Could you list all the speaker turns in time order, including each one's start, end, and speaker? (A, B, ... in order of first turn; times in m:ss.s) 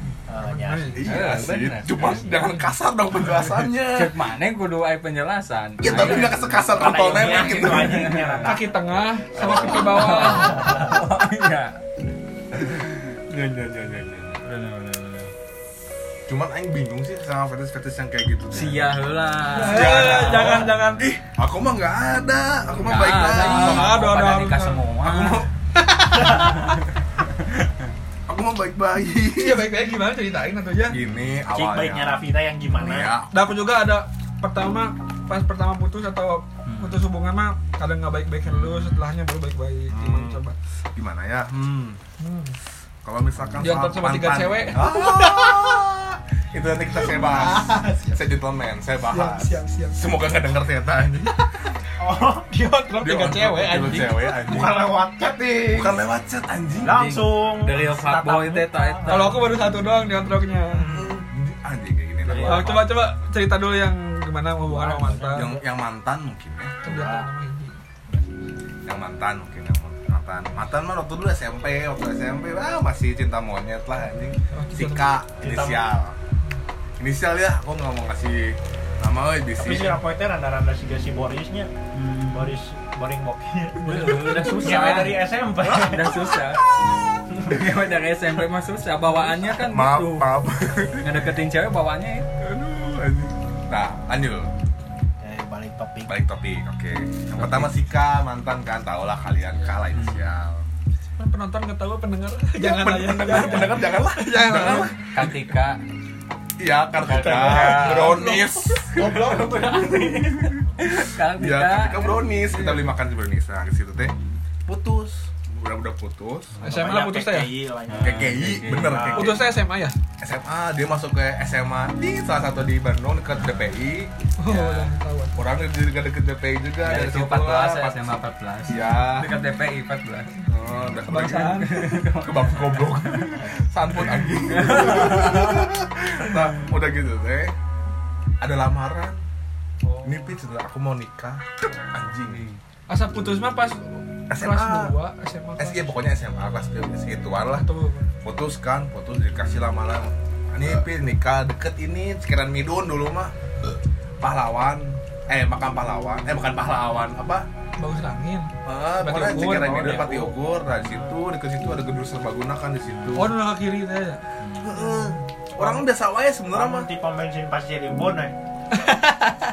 0:00.3-0:01.0 A
0:00.4-0:01.1 B
0:01.0-0:04.2 C
0:01.0-0:02.5 D
0:03.9-0:08.6 D
0:05.8-0:08.2 C
0:05.9-0:11.0 A
0:08.4-0:10.9 B
0:09.4-0:09.8 C
0:09.4-0:11.8 D
0:12.5-0:14.4 C
0:14.4-0:15.3 D
0:16.3-0:18.8 C
0:18.5-0:20.7 D
0:19.5-0:21.1 B
0:19.6-0:24.0 C
0:22.8-0:25.4 D
0:23.2-0:24.8 B
0:25.0-0:25.5 C
0:26.0-0:26.7 B
0:26.3-0:26.8 D
0:28.3-0:29.6 C
0:29.3-0:31.0 B
0:30.9-0:32.2 C
0:31.5-0:33.1 A
0:32.7-0:33.3 C
0:33.3-0:40.6 B
0:36.6-0:37.0 D
0:38.5-0:39.0 D
0:39.9-0:40.4 C
0:40.9-0:42.0 C
0:42.2-0:42.6 B
0:43.0-0:51.4 C
0:43.6-0:45.2 B
0:47.2-0:48.0 A
0:47.7-0:48.1 B
0:49.1-0:50.1 B
0:52.0-0:52.5 A
0:52.5-0:54.4 B
0:53.0-0:54.9 C
0:54.4-0:56.0 A
0:55.7-0:57.0 C
0:56.8-0:59.5 D
0:56.8-0:59.4 A
0:59.0-1:01.0 B
1:00.8-1:01.0 A
1:00.9-1:02.8 C
1:02.2-1:02.9 A
1:02.4-1:05.6 B
1:04.7-1:05.6 A
1:05.3-1:06.9 C
1:06.8-1:07.8 B
1:06.8-1:07.3 A
1:08.9-1:16.2 C
1:14.5-1:15.1 B
1:15.4-1:15.8 A
1:17.0-1:20.0 C
1:19.6-1:21.7 A
1:21.9-1:22.6 D
1:22.3-1:26.1 A
1:23.8-1:26.6 D
1:23.8-1:25.0 B
1:25.6-1:27.2 C
1:27.4-1:30.3 D
1:29.4-1:31.1 C
1:31.0-1:32.3 D
1:32.4-1:34.5 C
1:35.2-1:36.1 A
1:36.1-1:40.6 C
1:37.4-1:37.7 D
1:39.9-1:40.3 D
1:41.2-1:45.0 B
1:42.6-1:45.4 C
1:43.3-1:43.8 D
1:45.0-1:45.8 D
1:46.6-1:54.1 C
1:47.0-1:52.2 D
1:47.2-1:48.4 B
1:49.2-1:49.8 A
1:52.5-1:52.9 B
1:54.6-1:56.6 C
1:56.6-1:59.4 A
1:56.6-1:57.5 B
1:57.9-1:59.1 D
1:58.0-1:59.4 C
1:59.1-1:59.9 B
2:00.2-2:09.3 C
2:04.4-2:05.4 B
2:06.8-2:10.3 D
2:10.5-2:11.7 C
2:11.1-2:11.9 B
2:11.6-2:13.3 D
2:12.2-2:17.5 C
2:14.5-2:15.7 D
2:16.3-2:16.6 D
2:18.4-2:19.2 C
2:20.0-2:22.4 C
2:22.2-2:22.6 D
2:22.9-2:26.0 B
2:24.3-2:25.0 C
2:25.6-2:27.7 C
2:27.5-2:28.1 B
2:28.2-2:33.3 C
2:34.2-2:37.4 C
2:37.8-2:40.3 B
2:38.6-2:43.4 C
2:43.1-2:44.2 B
2:44.4-2:44.8 D
2:44.6-2:46.9 C
2:45.6-2:45.8 B
2:46.5-2:48.4 A
2:48.8-2:49.1 B